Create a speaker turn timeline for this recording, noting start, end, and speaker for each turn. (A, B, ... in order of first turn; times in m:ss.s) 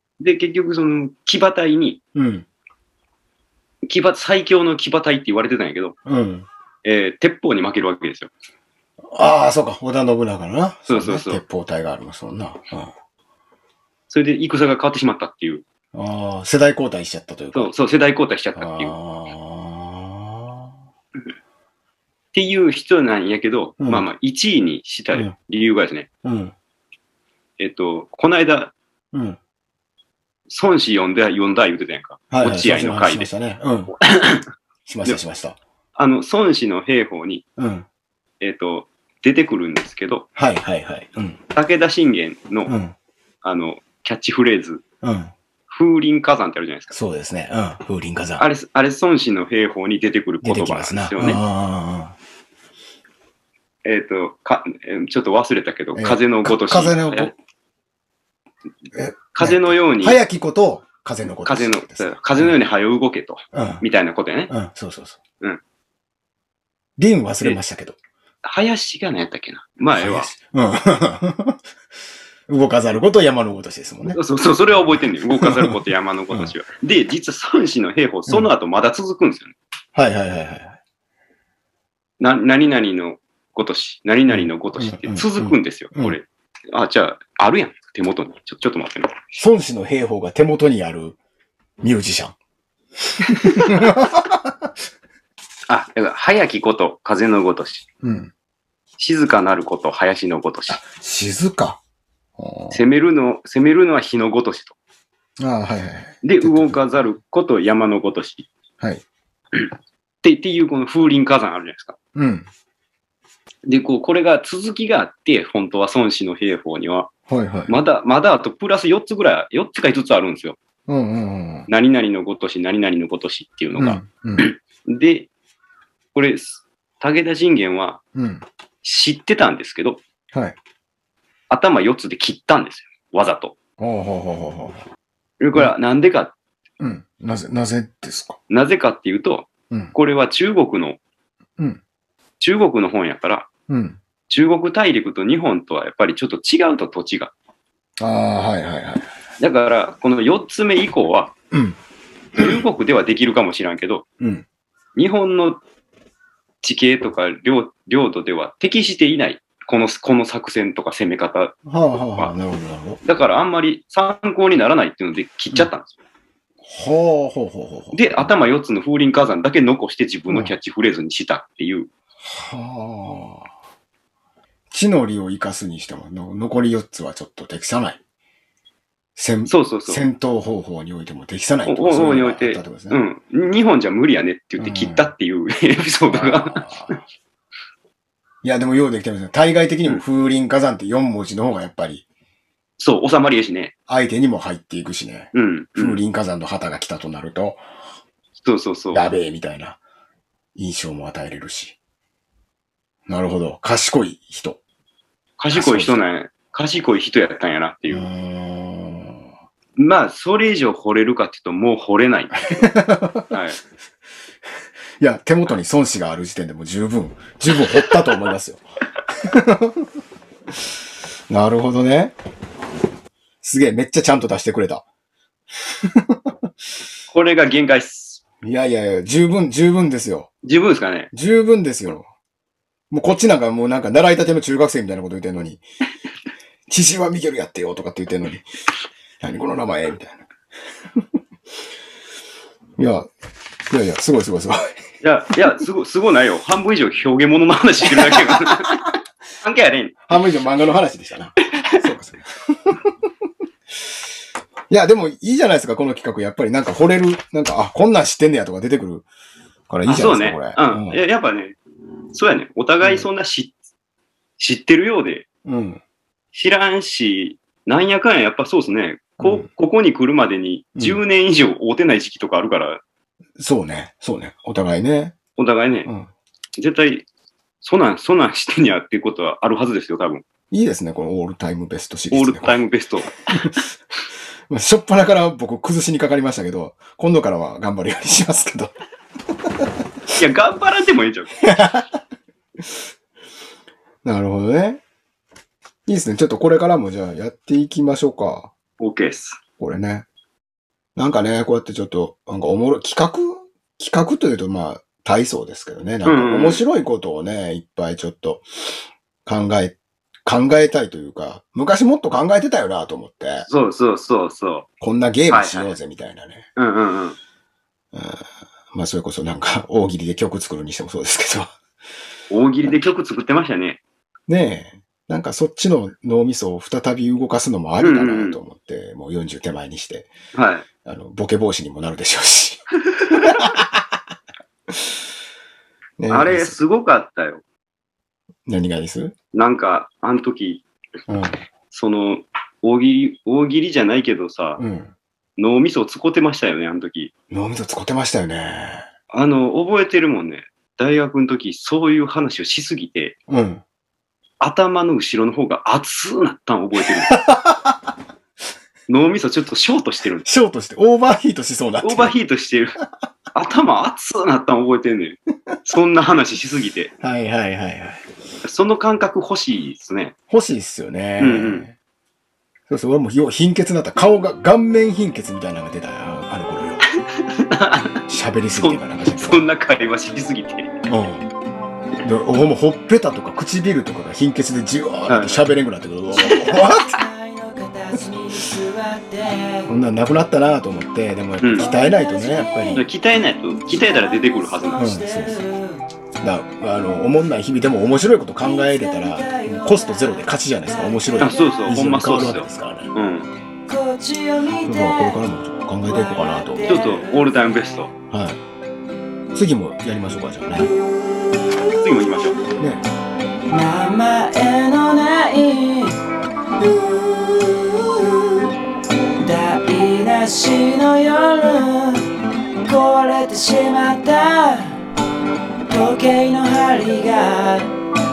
0:00.2-0:02.0 A
0:02.1-0:02.4 B
0:03.8-0:05.9 A
0:06.0-0:06.4 B
0:06.8-0:08.3 A
0:09.1-0:12.9 B
0:10.9-0:11.4 A
0:14.1-0:15.6 A
0:15.9-0:17.7 B
0:17.5-0:19.0 A
0:18.5-0:20.7 B
0:22.3-0:26.1 A
0:23.8-0:24.0 B
0:26.2-0:26.5 B
0:27.6-0:28.7 A
0:29.1-0:29.4 B
0:30.5-0:33.3 A
0:32.3-0:33.9 B
0:34.0-0:34.4 A
0:34.8-0:35.6 B
0:36.0-0:37.4 A
0:37.6-0:37.8 B
0:38.4-0:40.2 A
0:40.3-0:41.4 B
0:41.5-0:42.7 A
0:42.6-0:42.9 B
0:43.4-0:44.8 A
0:45.0-0:45.3 B
0:45.7-0:46.9 A
0:46.9-0:48.4 B
0:48.4-0:51.4 A
0:50.4-0:52.2 B
0:53.8-0:57.3 A
0:55.9-0:57.3 B
0:58.9-1:02.5 B
0:59.3-1:00.2 A
1:01.4-1:04.5 A
1:03.5-1:03.8 B
1:04.5-1:05.2 B
1:07.0-1:08.0 B
1:08.4-1:10.3 A
1:09.9-1:11.6 B
1:12.5-1:14.2 B
1:14.1-1:19.5 A
1:14.7-1:16.5 B
1:19.9-1:20.8 B
1:22.2-1:29.3 A
1:24.3-1:26.2 B
1:29.4-1:31.2 B
1:31.8-1:32.3 B
1:33.2-1:34.7 B
1:33.3-1:33.9 A
1:35.7-1:37.8 A
1:38.0-1:38.3 B
1:39.0-1:40.8 A
1:40.7-1:41.8 B
1:42.4-1:42.8 B
1:42.7-1:44.7 A
1:45.4-1:46.8 B
1:46.2-1:48.5 A
1:50.2-1:52.0 A
1:52.1-1:52.4 B
1:53.6-1:57.1 A
1:57.3-1:57.8 B
1:57.7-2:00.6 A
2:00.9-2:01.7 B
2:01.7-2:05.3 A
2:03.8-2:04.5 B
2:06.1-2:08.0 A
2:08.1-2:08.4 B
2:08.8-2:10.0 A
2:11.5-2:13.5 A
2:13.8-2:14.8 B
2:15.4-2:16.3 A
2:16.8-2:18.4 B
2:18.5-2:21.0 A
2:22.4-2:23.5 A
2:23.7-2:24.0 B
2:24.3-2:27.3 A
2:28.0-2:29.1 B
2:29.4-2:31.3 A
2:31.5-2:31.8 B
2:32.3-2:32.6 B
2:32.4-2:34.0 A
2:34.2-2:34.4 B
2:35.0-2:35.6 A
2:36.6-2:41.5 A
2:41.6-2:43.0 B
2:43.0-2:45.9 A
2:46.7-2:48.3 B
2:47.9-2:51.9 A
2:52.2-2:53.5 B
2:54.7-2:58.0 B
2:59.2-3:03.0 B
2:59.5-3:00.0 A
3:01.6-3:07.0 A
3:04.6-3:05.1 B
3:06.1-3:07.0 B
3:08.4-3:12.0 B
3:12.8-3:13.7 A
3:13.9-3:17.6 B
3:15.3-3:16.0 A
3:18.4-3:19.0 A
3:18.9-3:19.8 B
3:20.6-3:21.8 B
3:23.1-3:24.6 B
3:25.4-3:28.1 A
3:25.5-3:26.0 B
3:27.9-3:29.2 B
3:29.8-3:32.7 A
3:32.5-3:33.3 B
3:33.3-3:33.6 A
3:35.0-3:38.6 B
3:37.5-3:37.9 A
3:39.2-3:39.8 B
3:41.3-3:42.1 B
3:43.4-3:44.8 B
3:45.8-3:46.3 B
3:47.1-3:48.2 A
3:48.4-3:50.3 B
3:50.4-3:51.1 A
3:51.1-3:52.1 B
3:52.9-3:55.6 B
3:56.7-3:58.4 B
3:59.2-4:00.2 B
4:02.8-4:03.1 B
4:03.7-4:04.8 B
4:05.0-4:08.8 A
4:08.0-4:08.5 B
4:09.4-4:10.0 A
4:10.1-4:12.9 B
4:14.7-4:19.1 B
4:19.7-4:21.0 B
4:19.8-4:21.6 A
4:22.1-4:23.5 A
4:24.4-4:25.2 A
4:25.4-4:25.8 B
4:26.3-4:32.8 A
4:29.2-4:29.5 B
4:30.8-4:31.0 B
4:33.4-4:35.2 B
4:35.4-4:35.9 A
4:35.8-4:36.1 B
4:36.6-4:37.1 A
4:37.6-4:40.2 A
4:40.5-4:42.6 B
4:42.1-4:43.2 A
4:44.5-4:48.7 B
4:50.2-4:51.3 A
4:51.4-4:51.9 B
4:54.0-4:54.8 B
4:55.9-4:58.5 B
4:58.8-4:59.4 A
4:59.6-5:00.0 B
5:01.0-5:08.4 B
5:06.0-5:06.6 A
5:09.2-5:13.5 B
5:13.5-5:14.7 A
5:14.8-5:16.5 B
5:15.3-5:15.7 A
5:16.6-5:17.2 A
5:17.9-5:21.5 B
5:22.3-5:23.8 A
5:24.3-5:30.1 B
5:27.8-5:28.4 A
5:30.3-5:30.7 A
5:30.8-5:33.8 B
5:32.9-5:33.3 A
5:36.0-5:36.6 B
5:36.1-5:37.4 A
5:38.4-5:39.1 B
5:39.3-5:40.6 A
5:41.1-5:41.4 B
5:41.7-5:44.6 A
5:44.6-5:44.9 B
5:45.4-5:47.1 A
5:47.3-5:48.8 B
5:49.1-5:53.1 A
5:53.3-5:53.6 B
5:54.4-5:57.2 A
5:57.1-5:57.8 B
5:58.9-6:00.2 A
6:00.2-6:02.1 B
6:01.8-6:02.8 A
6:03.3-6:06.9 A
6:07.0-6:08.0 B
6:08.4-6:10.1 A
6:10.3-6:11.8 B
6:11.2-6:11.6 A
6:12.7-6:16.9 B
6:17.1-6:18.0 A
6:18.0-6:19.4 B
6:18.6-6:20.7 A
6:20.9-6:21.3 B
6:22.0-6:27.0 B
6:25.1-6:25.6 A
6:26.2-6:29.7 C
6:29.7-6:32.8 B
6:31.4-6:31.7 A
6:31.6-6:32.9 C
6:32.7-6:34.9 A
6:33.5-6:35.8 C
6:34.8-6:35.4 B
6:36.2-6:42.9 B
6:38.4-6:41.6 C
6:41.2-6:43.3 A
6:43.7-6:45.2 C
6:44.6-6:46.7 B
6:45.8-6:47.3 C
6:46.6-6:47.9 A
6:48.1-6:48.4 B
6:49.3-6:50.7 B
6:51.2-6:51.9 C
6:51.7-6:52.4 A
6:52.6-6:52.8 B
6:53.5-6:56.0 C
6:56.6-6:58.5 C
6:59.2-7:02.0 C
7:02.6-7:04.8 C
7:05.7-7:07.7 C